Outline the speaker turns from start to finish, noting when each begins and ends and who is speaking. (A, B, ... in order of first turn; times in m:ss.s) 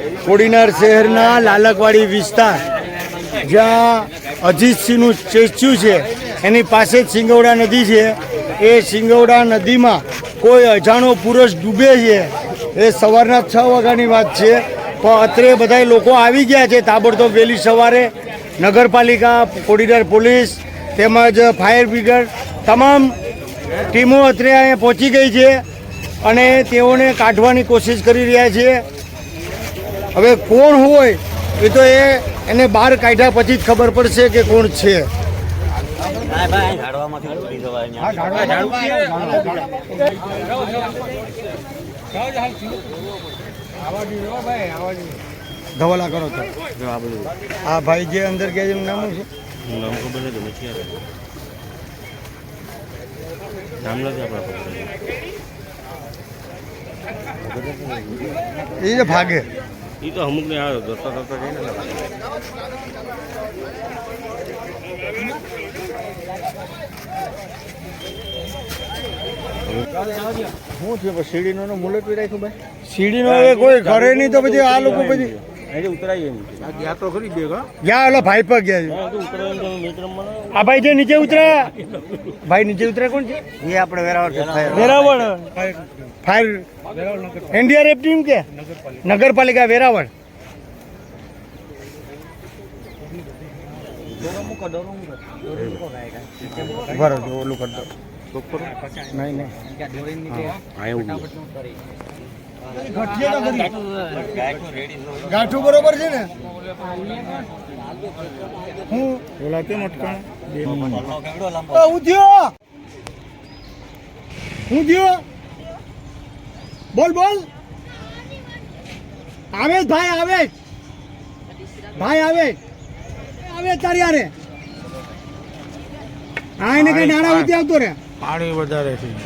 0:00.2-0:02.6 A
0:03.4-0:23.1 A
0:23.9-0:25.5 A
0:26.2-0:28.8 A
0:30.1-0:35.1 A
0:38.0-0:39.6 A
0:45.8-0:46.5 A
0:47.6-0:49.3 A
0:49.6-0:50.9 B
0:53.8-0:54.9 B
0:58.8-0:59.4 A
1:00.0-1:02.0 B
1:10.8-1:11.4 B
1:12.8-1:15.4 A
1:15.7-1:17.4 B
1:17.8-1:19.0 A
1:19.0-1:20.4 B
1:20.5-1:21.7 A
1:22.4-1:25.6 A
1:24.3-1:24.6 B
1:26.2-1:26.6 A
1:27.5-1:28.4 A
1:29.0-1:30.1 A
1:36.8-1:37.9 A
1:39.1-1:39.5 A
1:40.8-1:41.3 B
1:42.7-1:43.7 A
1:45.2-1:46.3 A
1:48.9-1:50.2 A
1:51.7-1:52.5 A
1:54.7-1:55.2 A
1:56.9-1:57.5 A
1:59.5-2:00.5 A
2:02.0-2:02.6 A
2:03.4-2:04.3 A
2:06.6-2:08.0 A